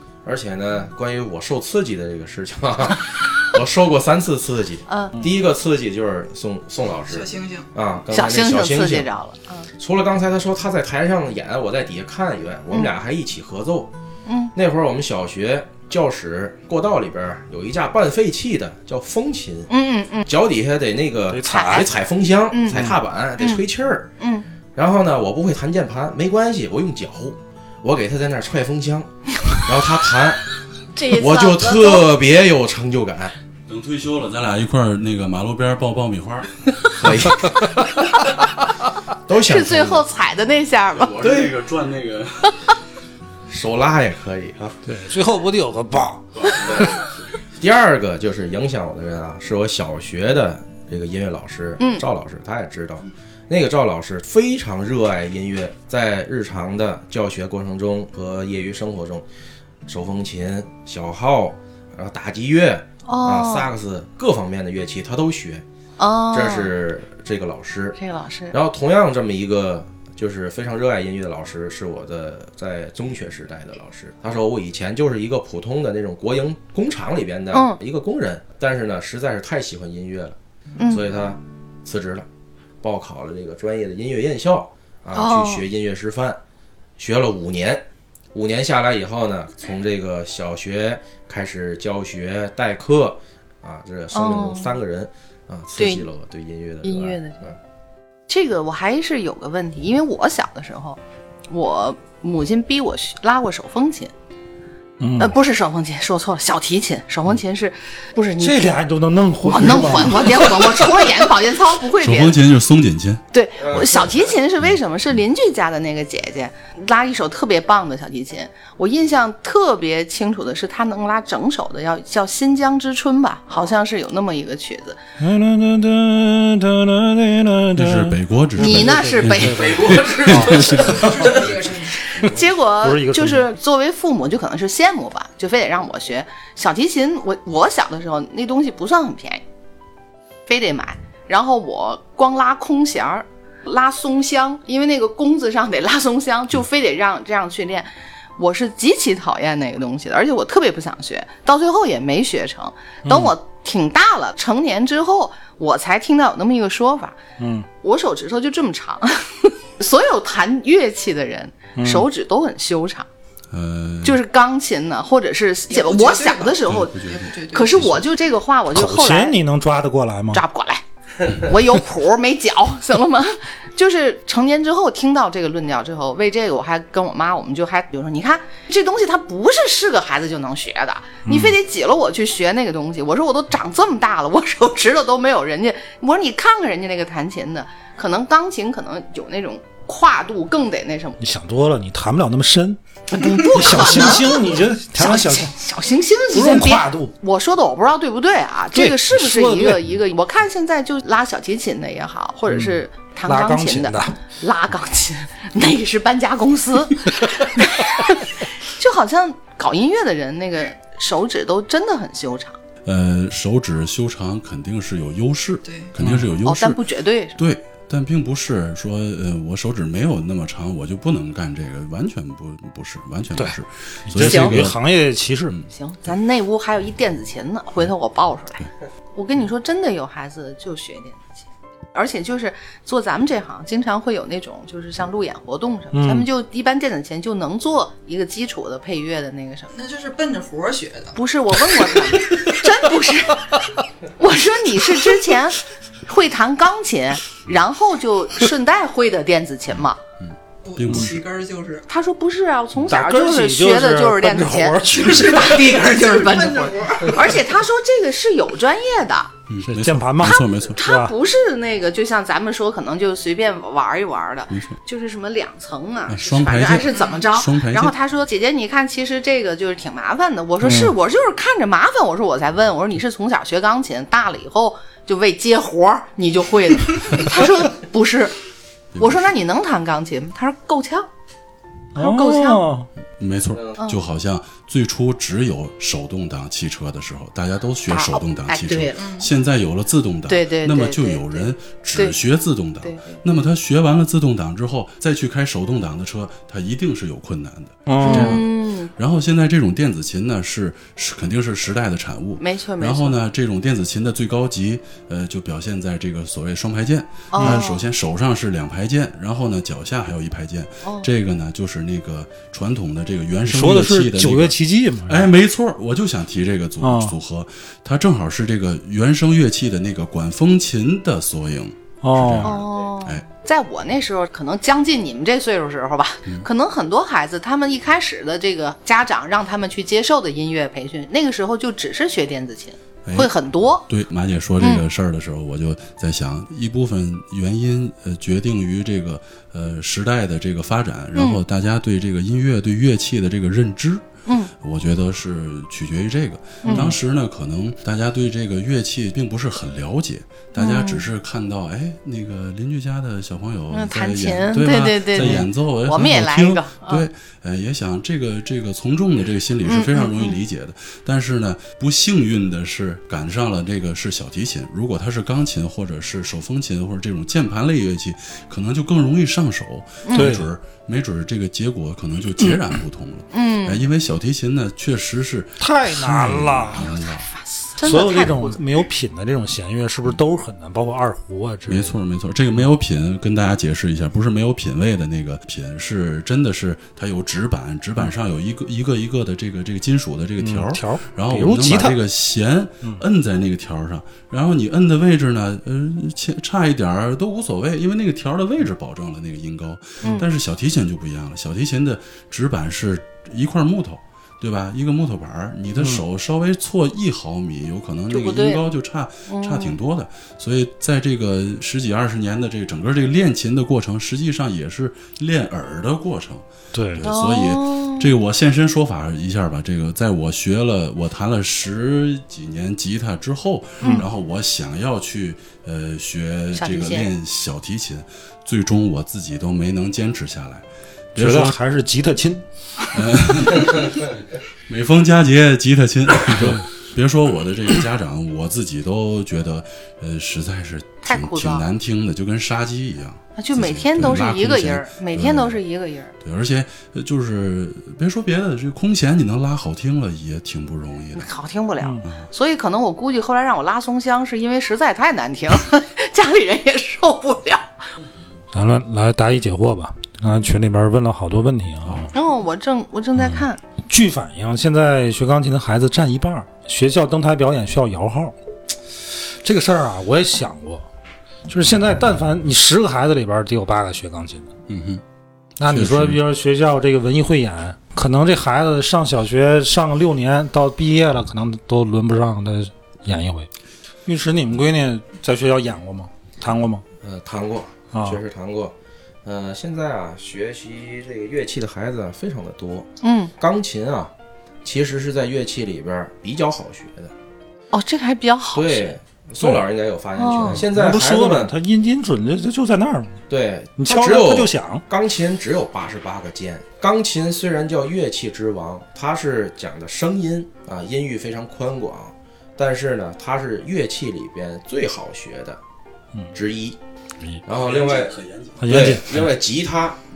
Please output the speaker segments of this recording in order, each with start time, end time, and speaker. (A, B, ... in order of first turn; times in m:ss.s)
0:00.2-0:09.1 A
0:04.9-0:05.2 B
0:07.1-0:07.7 C
0:08.1-0:09.7 B
0:09.8-0:13.9 A
0:14.3-0:14.5 B
0:14.5-0:19.7 A
0:19.7-0:20.3 B
0:20.2-0:24.1 A
0:21.3-0:21.9 D
0:21.5-0:21.9 B
0:22.5-0:22.9 B
0:24.2-0:24.5 B
0:24.8-0:30.5 A
0:31.0-0:32.1 B
0:31.1-0:33.4 A
0:33.7-0:36.7 E
0:36.9-0:37.9 A
0:39.3-0:40.1 A
0:39.4-0:41.2 B
0:40.9-0:42.6 E
0:41.2-0:41.5 A
0:43.5-0:44.8 A
0:44.8-0:46.8 D
0:46.4-0:47.2 E
0:47.6-0:59.2 A
0:51.8-0:52.0 B
0:59.9-1:05.6 A
1:03.1-1:03.7 B
1:06.0-1:06.7 B
1:06.3-1:08.0 A
1:08.0-1:08.6 B
1:08.5-1:20.4 A
1:20.8-1:21.0 B
1:20.9-1:22.3 A
1:22.8-1:26.4 A
1:25.2-1:25.6 B
1:27.0-1:37.6 A
1:34.1-1:34.7 B
1:35.8-1:36.1 B
1:36.8-1:37.4 B
1:38.3-1:44.1 B
1:45.0-1:45.4 D
1:45.2-1:48.6 B
1:48.4-1:51.1 D
1:49.5-1:52.4 B
1:52.0-1:53.2 E
1:53.3-2:05.0 B
1:53.6-1:54.3 A
2:05.2-2:11.3 D
2:07.8-2:11.0 E
2:08.6-2:09.8 B
2:09.5-2:11.3 A
2:10.7-2:12.2 C
2:12.1-2:19.4 B
2:12.8-2:13.4 D
2:20.5-2:37.2 B
2:33.0-2:33.3 D
2:37.4-2:37.7 D
2:37.8-2:43.1 B
2:41.8-2:42.1 D
2:43.5-2:44.2 E
2:44.0-2:47.0 B
2:45.7-2:47.9 C
2:46.6-2:48.0 E
2:47.5-2:49.4 B
2:48.7-2:50.4 D
2:50.3-3:11.2 B
3:01.2-3:01.6 D
3:11.2-3:15.5 D
3:13.1-3:32.6 B
3:16.3-3:17.2 D
3:18.7-3:19.8 D
3:22.5-3:24.2 D
3:32.9-3:36.8 E
3:35.6-3:35.9 C
3:36.0-3:36.3 D
3:36.4-3:37.4 B
3:37.4-3:44.8 E
3:44.1-3:45.5 D
3:44.2-3:44.6 B
3:45.5-3:46.1 E
3:45.7-3:48.6 B
3:49.2-3:59.7 B
3:55.9-3:56.3 D
3:59.7-4:01.2 C
4:01.2-4:10.0 B
4:10.2-4:11.2 E
4:10.6-4:11.9 C
4:11.9-4:19.3 B
4:12.9-4:15.8 D
4:14.9-4:17.4 C
4:19.5-4:20.8 E
4:19.6-4:21.2 D
4:20.8-4:38.4 B
4:24.5-4:24.8 E
4:26.1-4:28.0 E
4:26.9-4:27.2 C
4:30.6-4:30.9 D
4:39.0-4:39.3 E
4:39.0-4:41.1 B
4:42.0-4:42.6 B
4:42.0-4:42.9 D
4:43.2-5:23.2 E
4:43.5-4:43.8 A
4:47.9-4:49.1 B
4:49.0-4:49.3 C
4:50.3-4:52.2 B
4:52.8-4:53.2 B
4:57.9-4:58.4 D
4:58.0-4:58.9 B
5:02.4-5:03.2 B
5:07.3-5:07.8 B
5:10.8-5:11.1 B
5:13.5-5:15.3 D
5:16.8-5:17.2 D
5:22.0-5:22.6 D
5:22.4-5:33.9 B
5:33.0-5:44.1 E
5:34.6-5:34.8 B
5:41.2-5:41.4 B
5:44.3-5:44.5 B
5:44.6-6:17.3 E
5:46.6-5:47.0 B
5:46.7-5:47.0 D
5:50.6-5:51.0 B
5:53.7-5:57.0 B
5:55.2-5:55.4 D
5:59.6-6:00.4 B
6:10.1-6:10.3 B
6:10.1-6:10.5 D
6:13.3-6:13.8 B
6:15.6-6:16.9 D
6:17.3-6:18.6 B
6:17.8-6:22.0 D
6:21.7-7:11.6 E
6:30.4-6:32.0 D
6:40.0-6:40.3 B
6:45.8-6:46.0 D
6:48.1-6:48.6 B
6:49.3-6:49.8 B
6:56.7-6:57.0 D
6:57.0-6:58.1 B
7:03.8-7:04.1 B
7:06.6-7:07.1 B
7:11.2-7:12.4 D
7:12.9-7:14.2 E
7:14.7-7:25.6 E
7:16.4-7:16.6 D
7:21.1-7:21.7 B
7:23.4-7:26.1 B
7:26.2-7:31.3 E
7:31.2-7:37.7 B
7:31.8-7:32.1 D
7:32.0-7:32.3 E
7:38.5-7:42.1 D
7:41.8-7:42.1 E
7:42.1-7:43.6 B
7:43.2-7:48.4 D
7:49.4-7:50.9 D
7:51.5-7:54.5 D
7:54.7-7:55.0 E
7:55.6-8:03.5 D
7:55.6-7:56.2 E
8:04.1-8:06.8 D
8:07.0-8:14.1 A
8:07.9-8:08.2 D
8:13.0-8:13.3 B
8:14.6-8:17.1 A
8:17.7-8:19.0 B
8:18.5-8:21.5 A
8:20.2-8:20.6 B
8:20.5-8:23.2 D
8:23.3-8:35.6 A
8:23.8-8:24.8 D
8:36.3-8:36.8 A
8:37.4-8:40.0 A
8:37.6-8:38.9 E
8:38.6-8:39.3 D